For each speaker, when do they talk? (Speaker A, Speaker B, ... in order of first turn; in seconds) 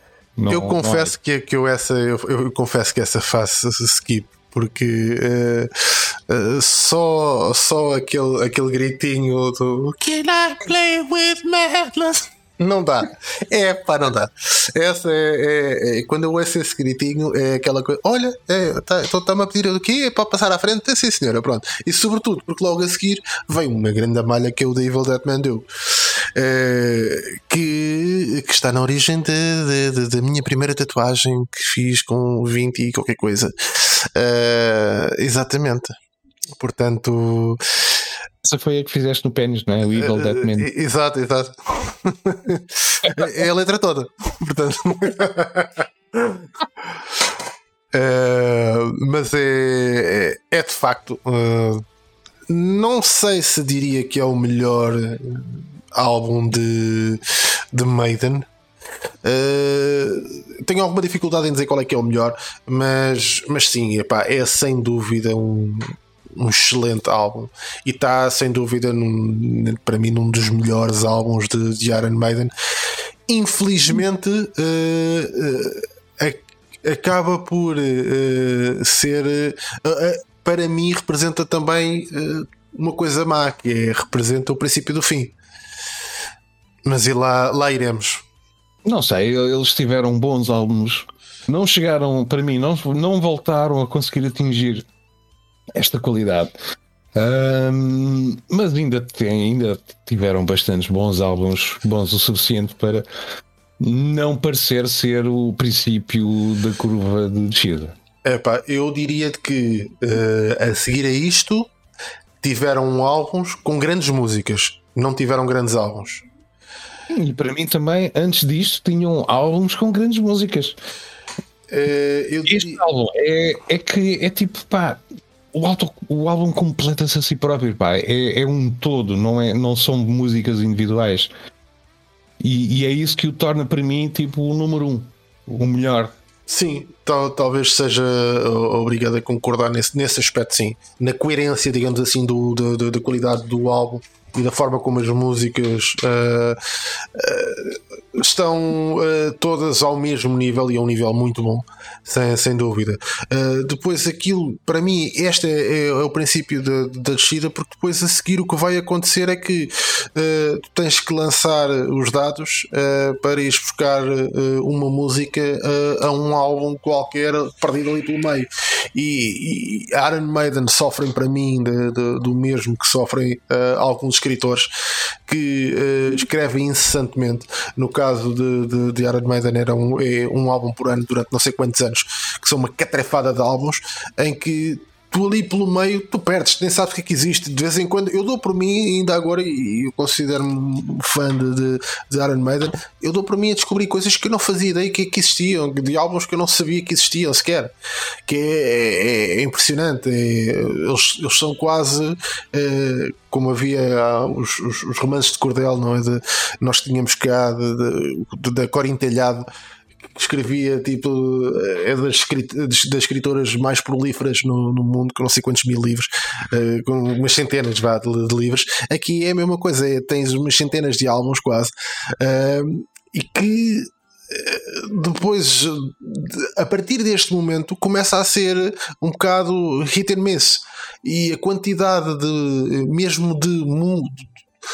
Speaker A: 0.4-1.1, 38.4-40.7, 88.8-94.8, 95.7-96.5, 97.1-103.0, 103.8-108.0, 117.1-120.8, 122.5-125.0, 125.5-131.3, 132.4-136.1
Speaker B: 0.5-25.7, 26.4-35.9, 36.6-37.9, 40.0-46.5, 47.9-51.8, 52.5-58.5, 59.2-72.5, 73.3-85.3, 86.8-88.2, 108.2-111.7, 112.4-116.2, 121.7-122.8, 136.5-146.6, 147.1-174.7, 175.3-197.7, 198.3-209.5, 210.1-234.2